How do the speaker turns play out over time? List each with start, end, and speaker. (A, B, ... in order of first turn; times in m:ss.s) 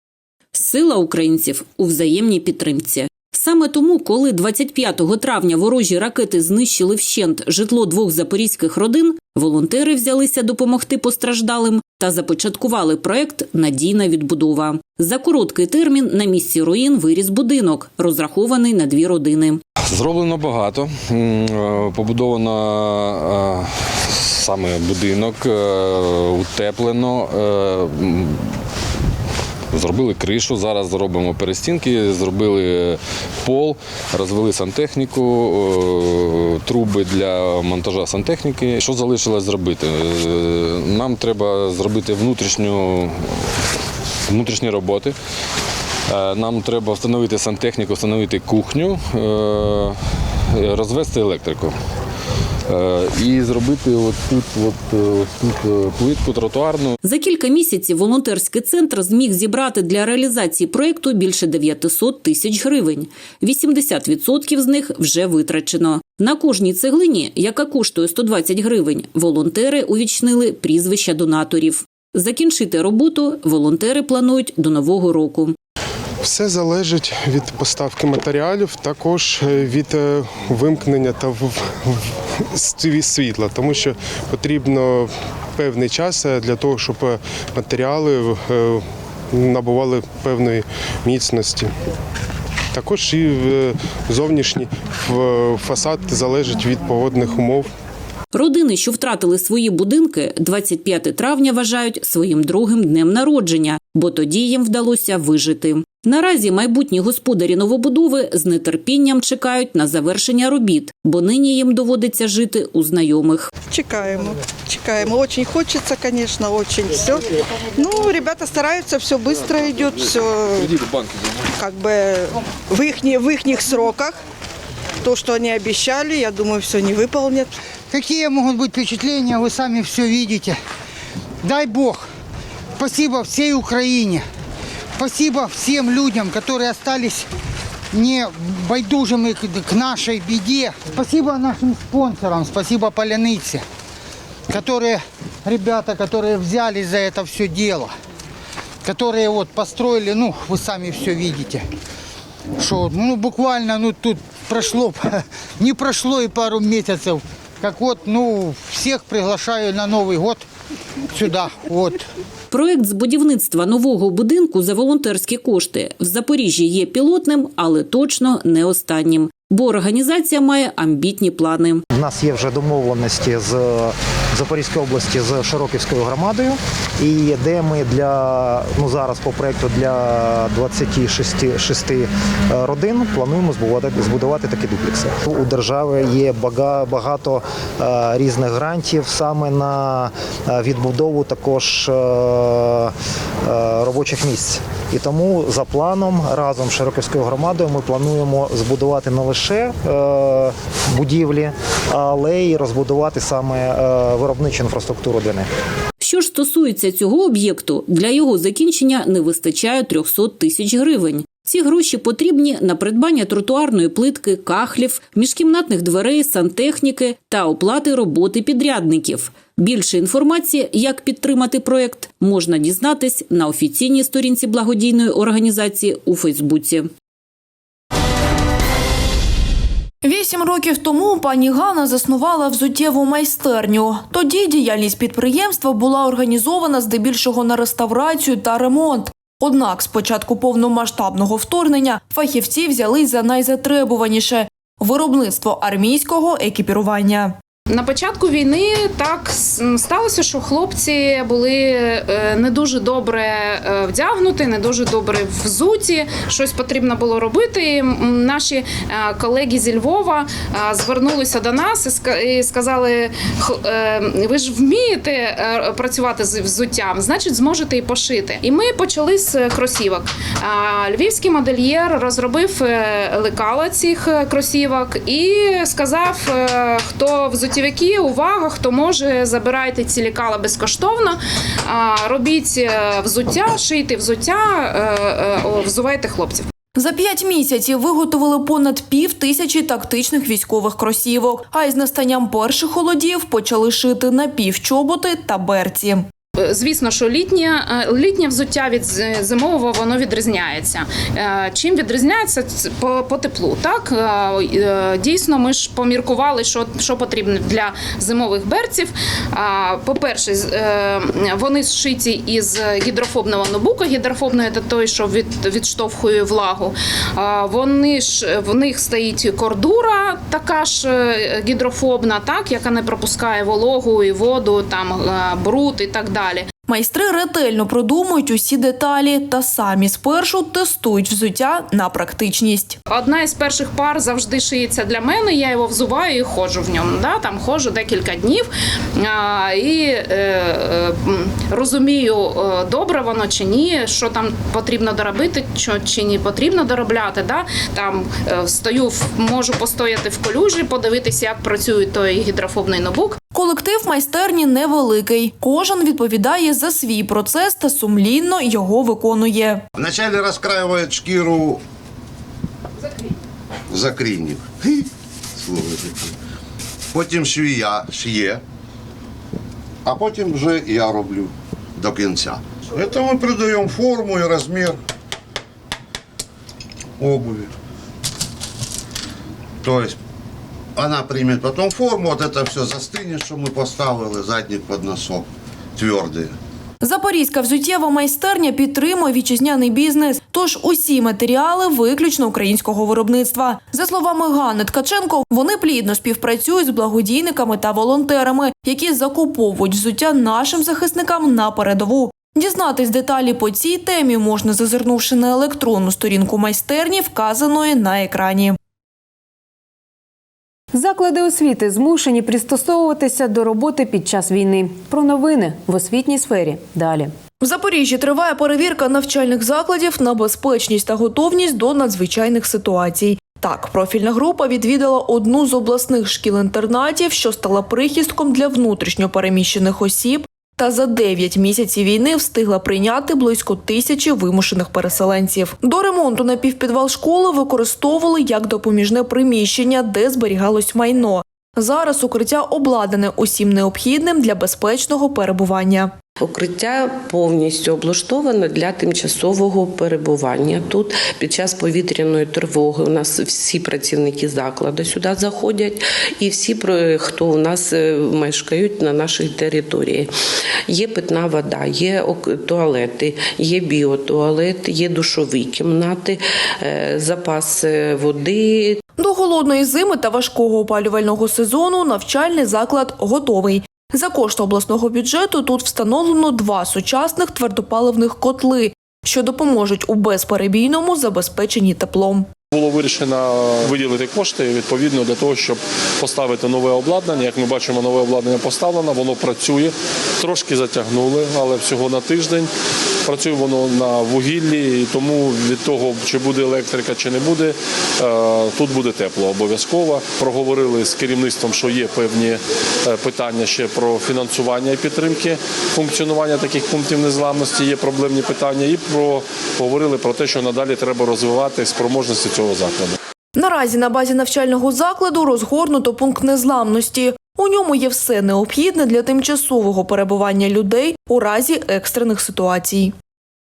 0:00.5-0:19.6 A
0:19.9-0:28.6 B
0:29.7-0:43.6 B
0:44.3-0:45.2 B
0:46.1-0:50.0 B
0:50.5-0:51.7 B
0:52.7-0:57.0 B
0:57.0-1:15.6 A
1:16.2-1:31.7 C
1:32.7-1:37.7 C
1:38.3-1:53.5 A
1:53.7-2:00.9 D
2:01.5-2:04.2 D
2:05.0-2:07.5 D
2:07.9-2:10.6 E
2:11.4-2:12.0 E
2:12.8-2:14.2 E
2:15.0-2:17.3 E
2:17.9-2:23.6 E
2:24.5-2:27.9 E
2:28.8-2:31.7 E
2:32.6-2:40.4 E
2:41.1-2:42.0 E
2:42.5-2:51.8 A
2:51.9-3:25.5 F
3:26.0-3:46.9 A
3:50.0-4:07.4 G
4:07.7-4:46.5 H
4:46.8-4:56.1 G
4:56.4-5:26.5 H
5:26.7-5:32.8 G
5:32.9-5:53.2 H
5:53.3-5:59.6 G
5:59.8-6:01.6 I
6:03.7-6:06.1 I
6:06.9-6:08.4 I
6:09.8-6:14.8 I
6:17.0-6:17.5 I
6:19.6-6:20.0 I
6:20.8-6:26.4 I
6:26.8-6:48.6 G
6:50.7-6:57.1 J
6:57.4-7:26.0 G
7:26.2-7:40.1 K
7:40.7-7:48.8 K
7:49.0-8:02.3 G
8:02.5-8:12.5 L
8:13.0-8:33.0 L
8:33.4-8:42.9 G